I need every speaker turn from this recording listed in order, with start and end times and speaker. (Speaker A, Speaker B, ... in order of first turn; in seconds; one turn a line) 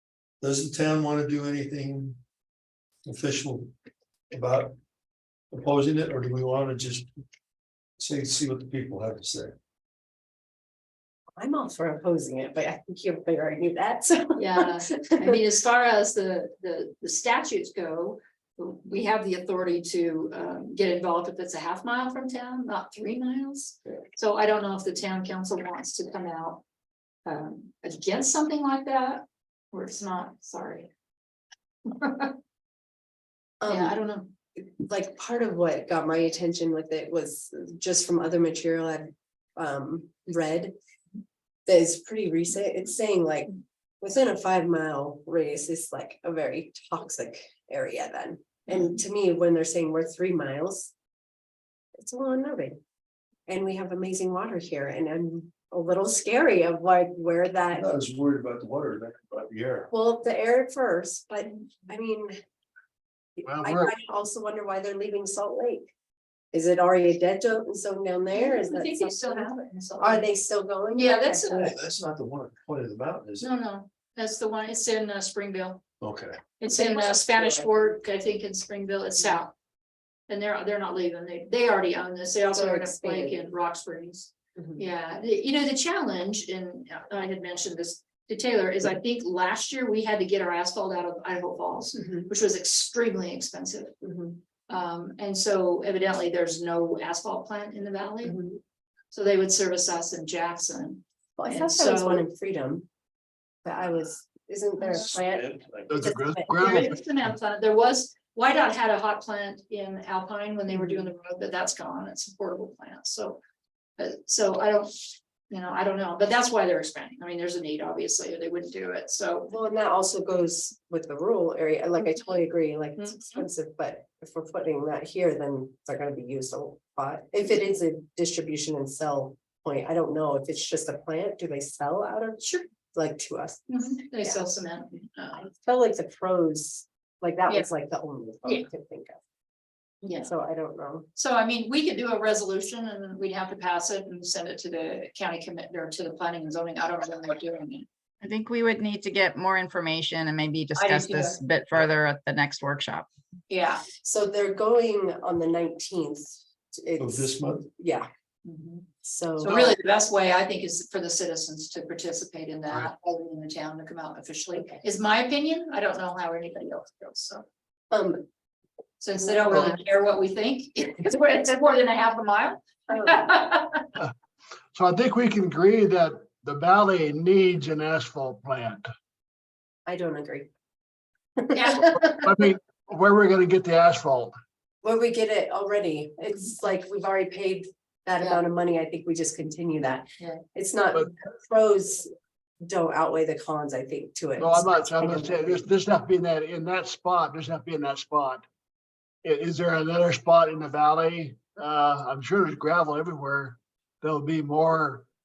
Speaker A: 0.4-2.2
Speaker A: 3.0-3.7
Speaker A: 4.3-4.7
Speaker A: 5.5-7.1
Speaker A: 8.0-9.6
Speaker B: 11.4-15.4
Speaker C: 14.4-26.6
Speaker C: 27.3-30.9
Speaker C: 31.9-32.3
Speaker B: 33.6-34.0
Speaker C: 33.7-34.3
Speaker B: 34.6-40.7
Speaker B: 41.7-50.9
Speaker B: 52.0-52.8
Speaker B: 53.5-57.9
Speaker A: 57.7-59.9
Speaker B: 59.9-62.4
Speaker B: 63.4-65.9
Speaker D: 63.5-63.9
Speaker B: 66.5-71.8
Speaker C: 68.3-70.3
Speaker C: 70.9-71.8
Speaker A: 71.7-73.5
Speaker C: 73.4-75.8
Speaker A: 76.0-76.4
Speaker C: 76.6-79.5
Speaker B: 76.7-78.0
Speaker C: 80.3-94.0
Speaker B: 82.5-83.5
Speaker B: 84.6-84.8
Speaker B: 91.9-92.3
Speaker B: 94.0-94.4
Speaker C: 94.7-98.4
Speaker B: 98.2-98.6
Speaker C: 99.1-102.3
Speaker B: 101.4-102.9
Speaker B: 103.6-106.9
Speaker A: 105.1-106.0
Speaker D: 105.9-107.0
Speaker C: 106.5-113.4
Speaker B: 110.7-111.1
Speaker C: 114.0-119.5
Speaker B: 119.5-132.4
Speaker C: 123.0-123.5
Speaker C: 132.4-132.7
Speaker B: 132.9-134.4
Speaker C: 133.7-135.4
Speaker B: 135.3-139.2
Speaker C: 140.0-140.3
Speaker B: 140.2-141.1
Speaker C: 141.2-147.9
Speaker E: 148.2-153.1
Speaker C: 150.8-151.4
Speaker C: 153.5-153.8
Speaker B: 154.0-158.1
Speaker A: 157.0-157.7
Speaker C: 158.4-158.8
Speaker B: 159.0-159.8
Speaker C: 159.4-167.4
Speaker B: 167.9-168.2
Speaker C: 169.0-173.9
Speaker B: 169.2-169.8
Speaker B: 172.9-173.3
Speaker D: 174.7-178.9
Speaker B: 179.9-180.5
Speaker B: 181.4-182.2
Speaker C: 181.5-181.9
Speaker D: 182.0-184.3
Speaker B: 184.8-192.1
Speaker C: 188.2-188.4
Speaker B: 192.6-195.7
Speaker D: 194.4-198.5
Speaker D: 199.2-205.1